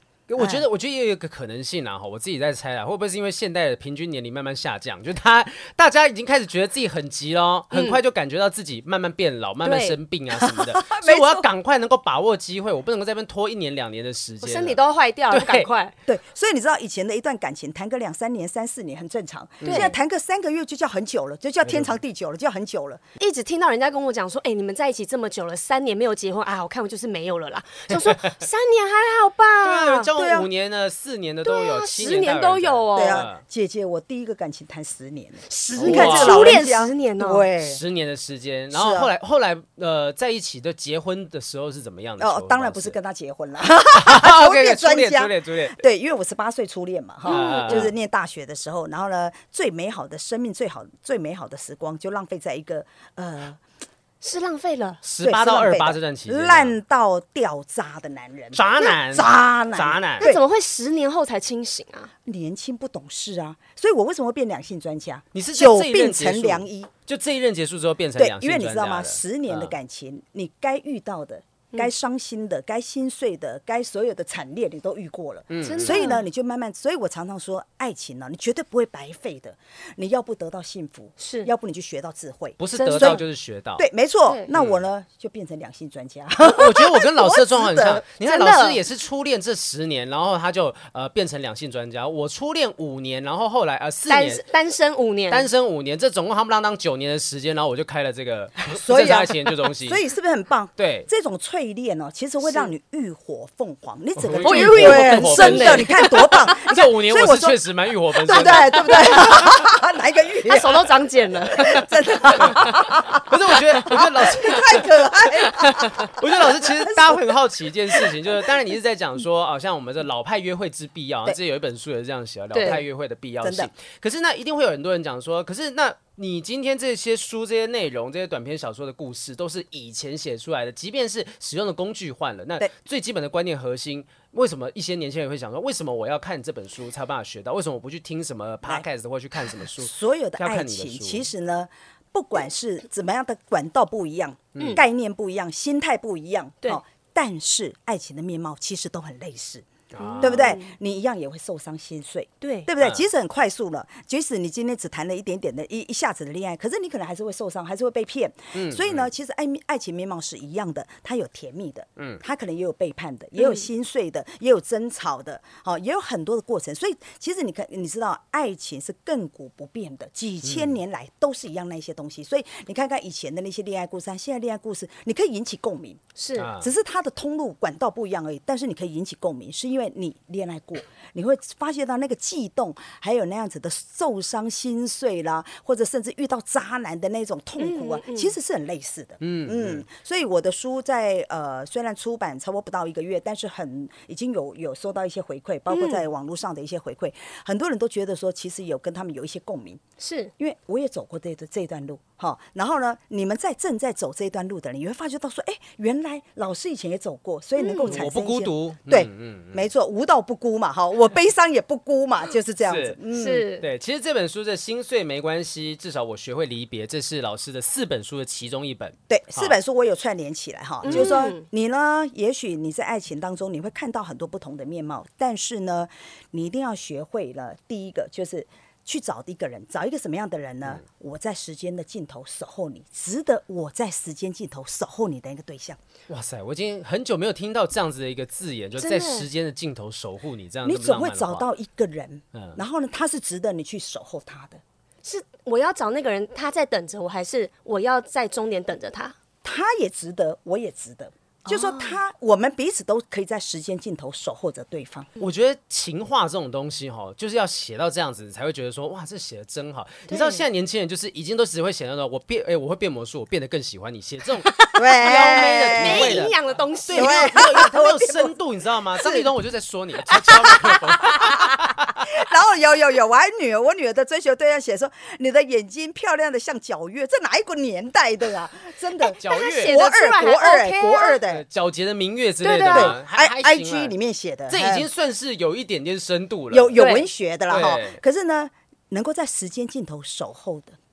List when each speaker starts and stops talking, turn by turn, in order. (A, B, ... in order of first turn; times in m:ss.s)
0:00.3-0:15.7 A
0:00.4-0:00.6 B
0:07.7-0:08.0 C
0:09.6-0:10.0 C
0:10.4-0:11.4 B
0:14.4-0:15.9 C
0:16.1-0:23.0 B
0:19.6-0:19.9 A
0:19.6-0:20.0 C
0:21.6-0:22.0 A
0:23.2-0:30.1 C
0:27.9-0:28.3 A
0:29.6-0:33.4 A
0:30.2-0:30.5 B
0:31.4-0:33.3 C
0:32.9-0:37.8 B
0:35.5-0:37.5 C
0:35.8-0:36.6 A
0:37.6-0:43.0 A
0:38.7-0:39.1 B
0:42.2-0:53.6 B
0:44.0-0:45.8 A
0:47.2-0:47.9 C
0:47.3-0:47.9 A
0:54.2-0:55.0 C
0:55.0-0:56.8 A
0:55.2-1:00.4 B
0:58.5-1:00.3 A
1:00.2-1:02.1 C
1:02.2-1:06.9 B
1:05.3-1:09.7 A
1:08.2-1:23.2 B
1:15.5-1:16.1 A
1:15.6-1:16.2 C
1:21.2-1:21.5 C
1:22.6-1:23.9 A
1:22.7-1:23.2 C
1:23.8-1:28.0 B
1:24.5-1:24.8 A
1:26.4-1:34.4 A
1:28.2-1:28.8 C
1:34.1-1:35.5 C
1:35.3-1:40.0 A
1:38.6-1:47.6 B
1:40.8-1:41.1 A
1:44.2-1:49.6 A
1:44.4-1:46.4 C
1:48.1-1:50.9 B
1:50.4-1:52.9 C
1:51.5-1:57.3 B
1:52.4-2:21.3 A
2:02.5-2:02.8 C
2:03.4-2:03.7 B
2:19.8-2:29.7 B
2:24.6-2:24.8 A
2:29.9-2:30.6 A
2:30.0-2:30.7 C
2:30.2-2:56.0 B
2:32.4-2:32.7 C
2:32.8-2:33.0 A
2:38.5-2:39.1 A
2:43.4-2:43.6 C
2:50.4-2:50.8 A
2:56.2-2:56.5 C
2:56.4-2:56.7 A
2:56.5-3:19.8 B
3:07.6-3:08.3 C
3:09.2-3:09.8 A
3:15.7-3:16.0 C
3:20.0-3:20.3 C
3:20.4-3:33.5 B
3:27.6-3:28.0 C
3:27.9-3:29.7 A
3:32.7-3:33.0 A
3:33.1-3:33.7 C
3:33.5-3:39.6 A
3:39.1-3:55.8 B
3:40.8-3:41.4 C
3:40.8-3:41.2 A
3:56.1-4:01.5 A
3:58.8-3:59.3 C
4:00.6-4:04.6 B
4:05.0-4:09.2 C
4:09.4-4:15.1 B
4:11.5-4:12.0 C
4:15.2-4:32.0 A
4:20.1-4:20.4 C
4:24.5-4:24.7 C
4:24.7-4:26.3 B
4:25.7-4:27.5 C
4:26.9-4:28.3 B
4:29.0-4:29.3 B
4:30.1-4:41.4 B
4:39.1-4:41.2 C
4:39.2-4:39.8 A
4:41.2-4:43.9 A
4:42.4-4:43.0 C
4:42.7-4:44.9 B
4:44.5-4:46.8 A
4:46.5-4:50.8 B
4:46.8-4:47.1 C
4:47.5-4:48.0 A